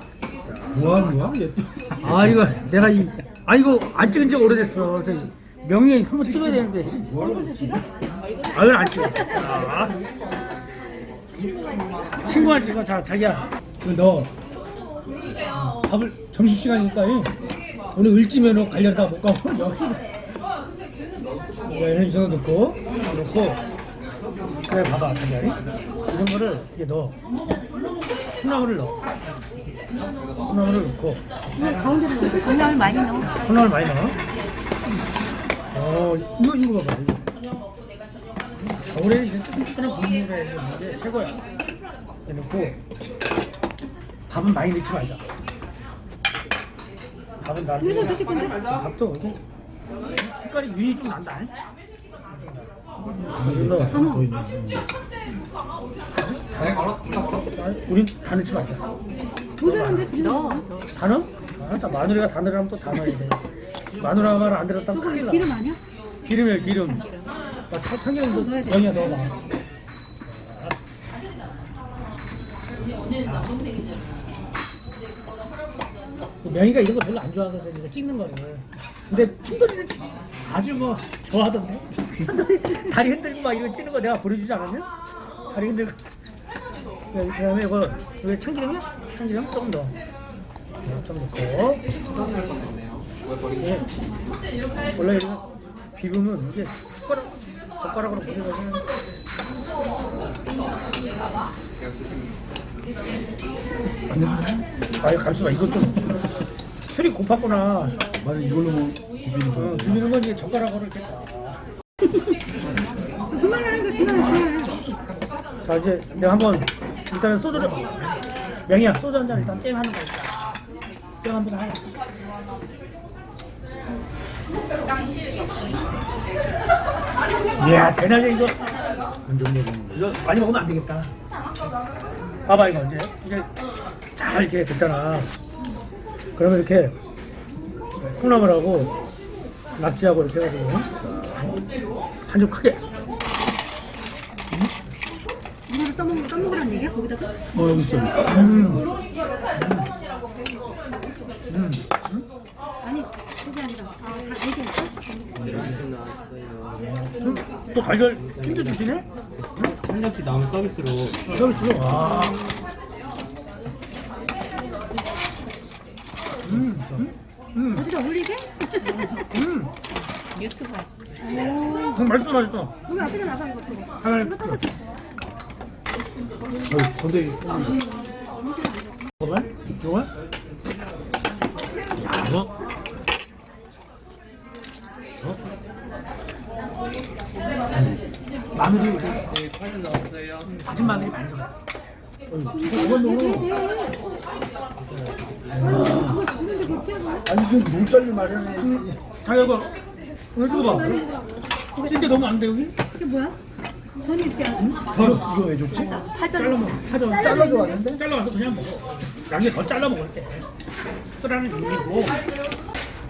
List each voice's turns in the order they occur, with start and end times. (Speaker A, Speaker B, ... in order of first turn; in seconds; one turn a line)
Speaker A: 0.6-2.2
Speaker B: 2.0-7.1
Speaker A: 6.3-7.8
Speaker C: 7.1-8.3
Speaker B: 8.5-10.0
Speaker C: 8.9-9.3
Speaker C: 11.3-12.5
Speaker B: 12.2-14.3
Speaker B: 15.5-17.3
Speaker B: 17.9-20.1
Speaker B: 21.7-23.6
Speaker B: 24.6-27.2
Speaker B: 28.3-29.0
Speaker B: 30.4-31.2
Speaker C: 31.6-33.4
Speaker B: 33.4-34.1
Speaker B: 35.7-37.2
Speaker B: 38.8-41.4
Speaker B: 42.2-42.8
Speaker B: 44.3-45.2
Speaker B: 47.4-49.4
Speaker C: 47.8-48.6
Speaker B: 50.2-51.5
Speaker B: 52.3-52.7
Speaker A: 53.3-54.9
Speaker B: 53.3-54.1
Speaker C: 53.9-54.3
Speaker B: 56.2-56.6
Speaker B: 57.4-58.9
Speaker C: 59.6-60.7
Speaker B: 59.6-60.4
Speaker B: 60.9-63.4
Speaker B: 64.0-65.5
Speaker C: 64.9-65.8
Speaker B: 66.2-67.0
Speaker C: 66.7-67.2
Speaker B: 67.7-69.3
Speaker C: 68.3-68.9
Speaker B: 70.3-70.7
Speaker B: 76.4-84.9
Speaker B: 85.5-86.0
Speaker B: 87.1-89.9
Speaker B: 90.8-91.8
Speaker B: 93.6-93.9
Speaker B: 95.0-98.9
Speaker A: 104.1-104.6
Speaker B: 105.0-106.1
Speaker B: 106.9-108.0
Speaker A: 108.1-110.0
Speaker B: 109.5-111.6
Speaker C: 113.3-114.8
Speaker B: 115.6-118.0
Speaker B: 118.7-120.5
Speaker B: 121.2-121.9
Speaker B: 127.6-128.6
Speaker B: 129.3-131.1
Speaker A: 129.4-129.9
Speaker B: 132.4-133.5
Speaker B: 134.2-135.3
Speaker B: 136.3-136.9
Speaker B: 138.0-138.9
Speaker B: 139.8-140.9
Speaker B: 142.3-142.8
Speaker C: 145.7-147.4
Speaker A: 147.5-148.3
Speaker B: 148.2-148.9
Speaker B: 149.6-149.8
Speaker B: 151.5-152.2
Speaker C: 152.8-155.3
Speaker A: 155.4-155.7
Speaker D: 155.5-156.9
Speaker B: 157.2-159.7
Speaker D: 159.6-161.2
Speaker B: 161.2-162.4
Speaker B: 166.4-167.9
Speaker C: 167.7-169.2
Speaker B: 169.2-169.7
Speaker C: 170.3-172.1
Speaker B: 171.8-172.8
Speaker C: 172.8-174.8
Speaker B: 174.0-174.6
Speaker A: 176.6-177.8
Speaker C: 177.5-178.9
Speaker B: 179.2-180.1
Speaker B: 181.9-182.5
Speaker B: 188.5-189.3
Speaker D: 189.4-190.5
Speaker B: 190.5-191.6
Speaker B: 192.3-193.5
Speaker C: 192.5-193.9
Speaker B: 195.5-196.2
Speaker C: 195.6-197.3
Speaker A: 197.2-198.9
Speaker B: 198.6-199.7
Speaker B: 200.3-201.1
Speaker C: 200.5-202.3
Speaker B: 201.8-202.8
Speaker C: 202.9-203.3
Speaker C: 204.0-204.8
Speaker B: 204.6-205.3
Speaker A: 204.9-206.0
Speaker C: 205.7-207.8
Speaker B: 206.2-210.4
Speaker A: 207.2-208.0
Speaker B: 211.2-212.2